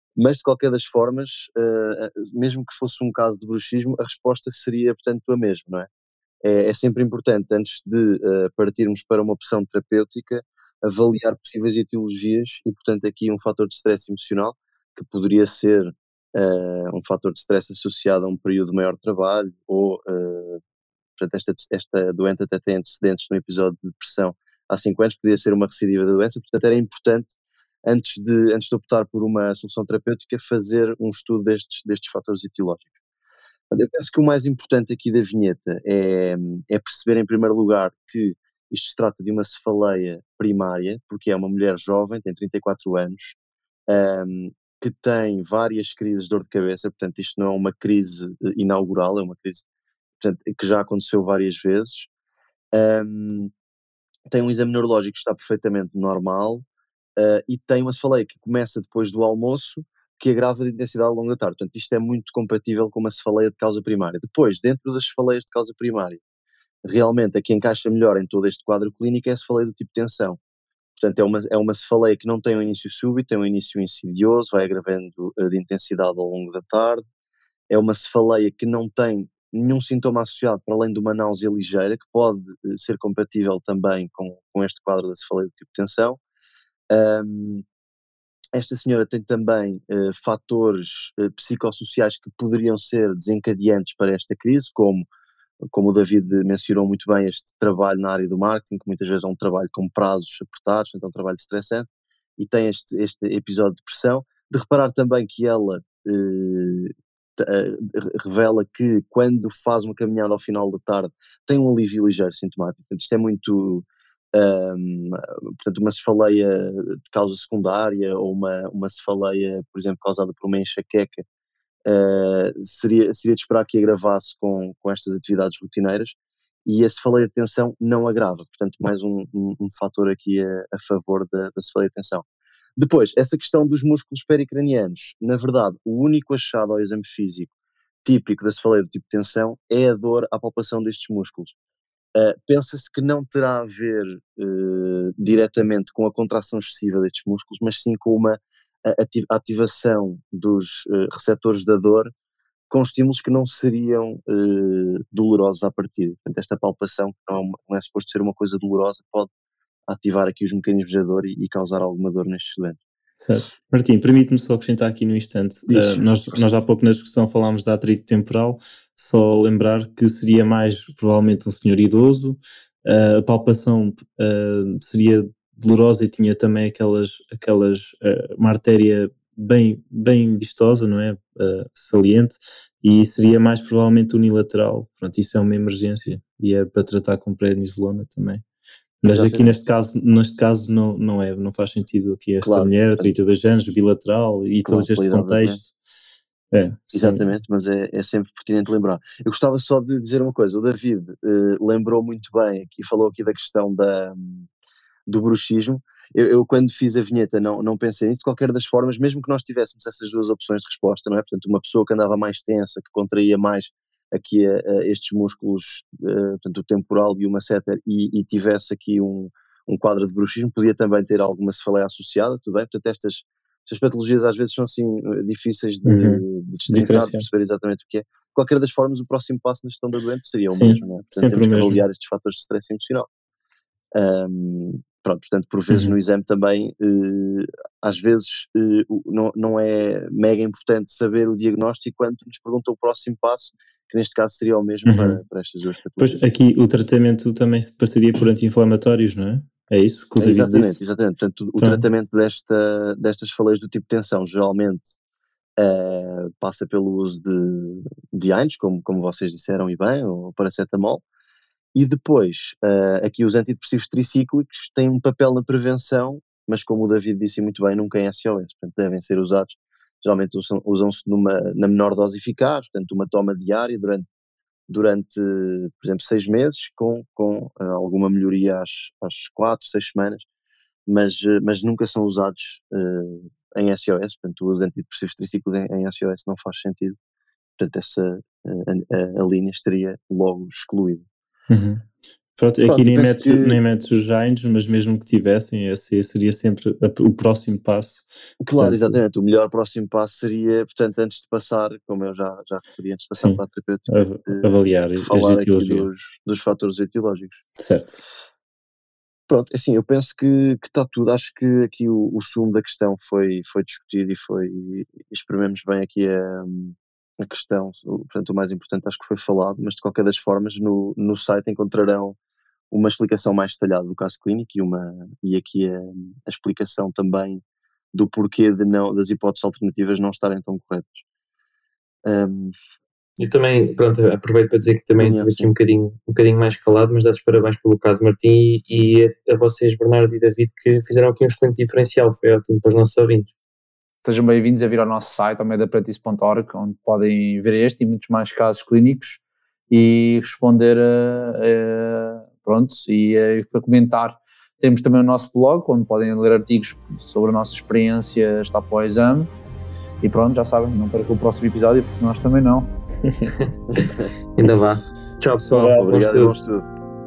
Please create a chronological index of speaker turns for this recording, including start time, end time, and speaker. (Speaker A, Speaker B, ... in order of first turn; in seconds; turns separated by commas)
Speaker A: 0.2-5.9, Speaker A: 6.4-20.6, Speaker A: 21.2-32.9, Speaker A: 33.7-43.4, Speaker A: 43.9-49.6, Speaker A: 50.2-52.1, Speaker A: 52.7-53.5, Speaker A: 54.3-56.6, Speaker A: 57.2-66.2, Speaker A: 66.8-70.4, Speaker A: 71.0-77.0, Speaker A: 77.7-86.2, Speaker A: 86.9-87.6, Speaker A: 88.5-95.1, Speaker A: 95.7-101.9, Speaker A: 102.4-121.2, Speaker A: 121.9-132.2, Speaker A: 132.8-137.5, Speaker A: 138.1-141.5, Speaker A: 142.2-152.1, Speaker A: 152.7-159.3, Speaker A: 159.9-162.8, Speaker B: 163.2-188.4, Speaker A: 165.7-166.4, Speaker B: 189.0-195.7, Speaker A: 189.0-189.7, Speaker A: 192.4-193.1, Speaker A: 194.6-195.6, Speaker B: 196.5-197.3, Speaker A: 196.9-204.5, Speaker A: 205.1-233.1, Speaker B: 225.9-227.3, Speaker B: 230.5-231.8, Speaker A: 233.9-246.2, Speaker B: 235.7-236.0, Speaker B: 244.9-245.2, Speaker B: 246.0-250.8, Speaker A: 250.2-255.0, Speaker B: 251.6-251.8, Speaker A: 255.6-261.0, Speaker A: 261.7-274.1, Speaker A: 274.7-280.2, Speaker A: 280.9-287.0, Speaker A: 287.6-291.1, Speaker B: 291.5-299.0, Speaker A: 292.7-293.6, Speaker A: 298.4-307.4, Speaker B: 303.2-305.9, Speaker B: 307.6-308.0, Speaker A: 309.3-322.2, Speaker A: 322.7-327.4, Speaker A: 327.9-331.1, Speaker A: 332.1-332.5, Speaker C: 333.2-343.3, Speaker A: 335.0-335.5, Speaker D: 344.0-359.3, Speaker D: 360.0-362.7, Speaker A: 363.7-364.1, Speaker C: 364.4-366.3, Speaker A: 365.5-366.7